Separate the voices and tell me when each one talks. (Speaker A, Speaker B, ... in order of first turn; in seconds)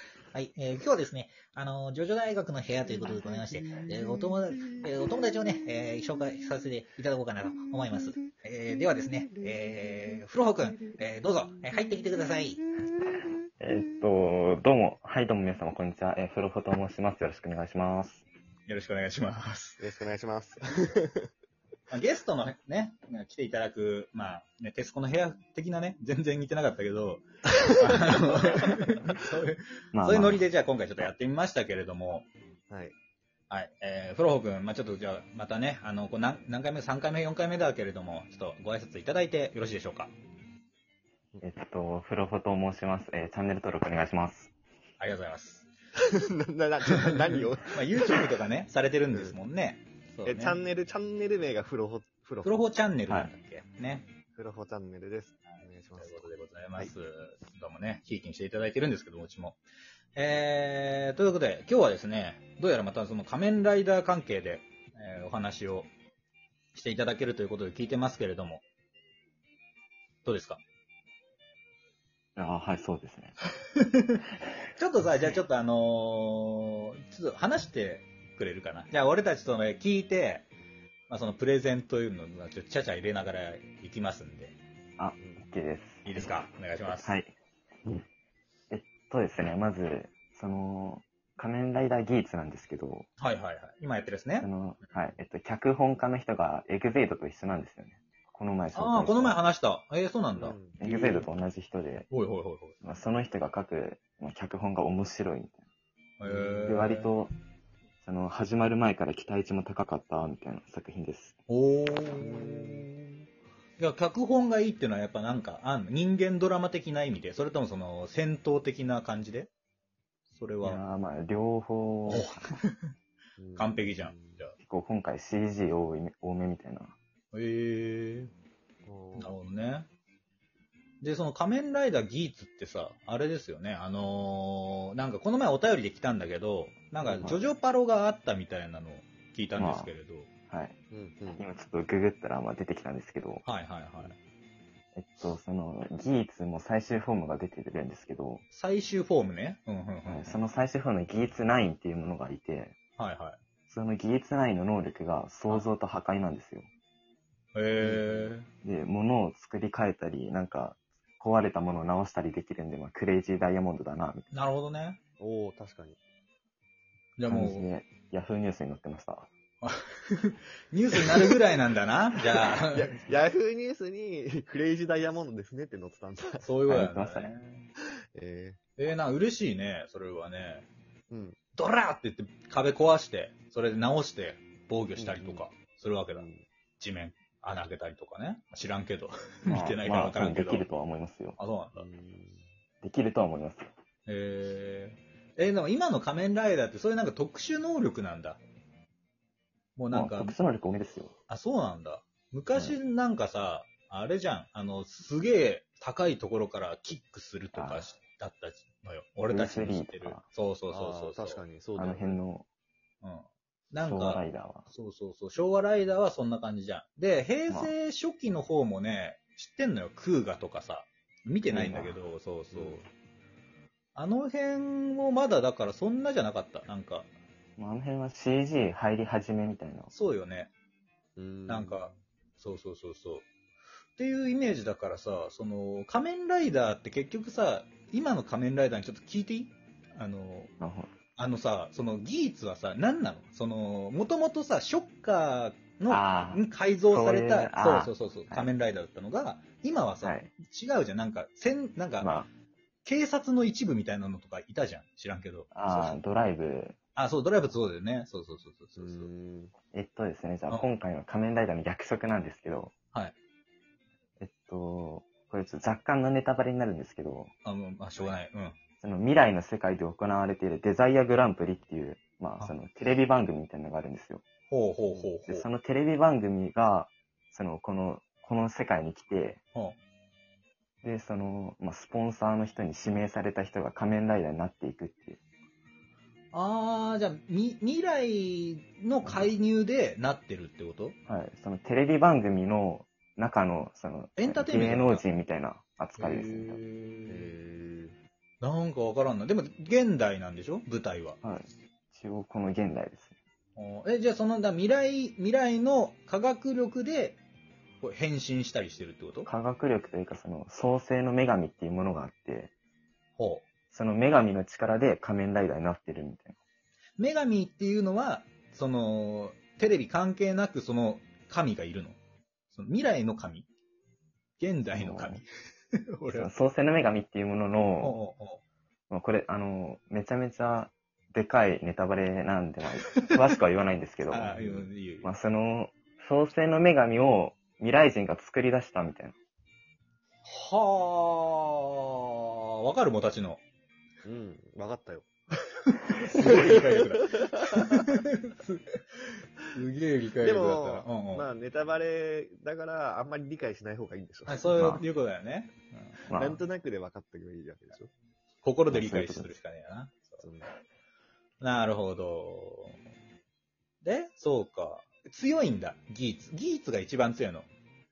Speaker A: 0.3-12.6, 18.7-19.8, 21.9-32.3, 33.5-40.1, 45.0-45.7, 47.7-50.6, 52.4-54.1, 55.5-59.6, 60.1-65.9, 66.7-68.6, 70.2-70.6, 73.7-74.2, 74.8-80.5, 81.1-84.5, 86.0-87.2, 93.2-94.5, 98.7-101.3, 102.1-102.8, 106.2-107.1, 111.5-112.9, 113.8-119.5, 120.3-120.8, 122.1-122.9, 123.5-124.5, 127.3-128.3, 129.2-129.9, 131.0-140.3, 143.4-144.2, 148.5-150.4, 153.0-153.4, 157.5-158.5, 164.3-165.0, 167.2-167.7, 169.6-173.0, 176.4-177.7, 178.8-180.7, 181.5-186.3, 186.8-190.7, 191.4-191.8, 194.1-198.4, 199.8-200.3, 201.3-211.4, 213.0-222.9, 223.9-227.1, 229.9-230.5, 231.5-233.2, 233.9-240.5, 241.1-252.2, 252.8-256.0, 256.9-259.1, 267.4-268.6, 274.5-275.4, 286.3-290.9, 294.2-295.0, 296.0-297.3, 298.4-301.2, 303.6-307.2, 307.8-309.3, 313.2-313.4, 317.0-322.0, 322.5-323.5, 324.4-325.2, 325.9-326.3, 327.8-328.4, 334.1-335.1, 340.2-343.4, 345.6-351.3, 354.3-356.0, 358.4-360.2, 361.4-362.8, 363.8-367.5
Speaker B: 3.2-5.1, 8.8-10.2, 11.8-12.4, 19.8-21.3, 32.7-32.9, 46.0-48.2, 50.2-52.5, 54.3-56.9, 85.2-85.4, 100.3-100.8, 106.2-106.8, 112.1-112.9, 123.4-124.4, 128.8-129.4, 137.0-137.3, 140.9-141.4, 157.8-158.3, 165.2-166.0, 172.6-176.5, 178.1-178.6, 181.1-181.4, 185.0-185.4, 186.1-186.4, 191.7-192.4, 210.7-212.2, 222.5-222.8, 231.2-231.9, 258.8-259.5, 274.9-275.2, 297.1-297.9, 344.0-345.1, 346.2-347.9, 350.2-354.5, 356.1-357.9, 360.2-360.5
Speaker C: 13.6-18.2, 29.9-30.4, 41.4-44.5, 72.3-73.3, 85.0-87.3, 88.7-93.1, 94.4-99.5, 100.8-102.1, 102.8-105.6, 106.7-107.3, 108.0-111.3, 120.6-122.5, 124.6-127.0, 137.2-137.5, 139.6-139.9, 140.5-140.8, 141.4-143.4, 144.9-148.4, 150.1-152.7, 153.7-156.7, 158.6-164.2, 167.3-169.3, 176.7-177.3, 189.5-191.4, 192.8-193.7, 199.9-201.1, 207.5-207.9, 209.2-210.2, 211.8-212.4, 213.8-214.7, 221.5-222.0, 227.6-229.9, 240.6-240.9, 245.9-248.5, 250.0-250.3, 252.0-252.3, 255.5-256.8, 259.7-262.7, 264.2-267.3, 268.8-274.2, 275.3-279.4, 280.8-285.2, 289.0-289.3, 291.1-296.6, 301.2-303.1, 309.2-312.5, 313.7-316.4, 324.7-325.2, 326.1-328.0, 328.9-339.1, 354.5-354.8, 356.1-356.4, 358.7-359.3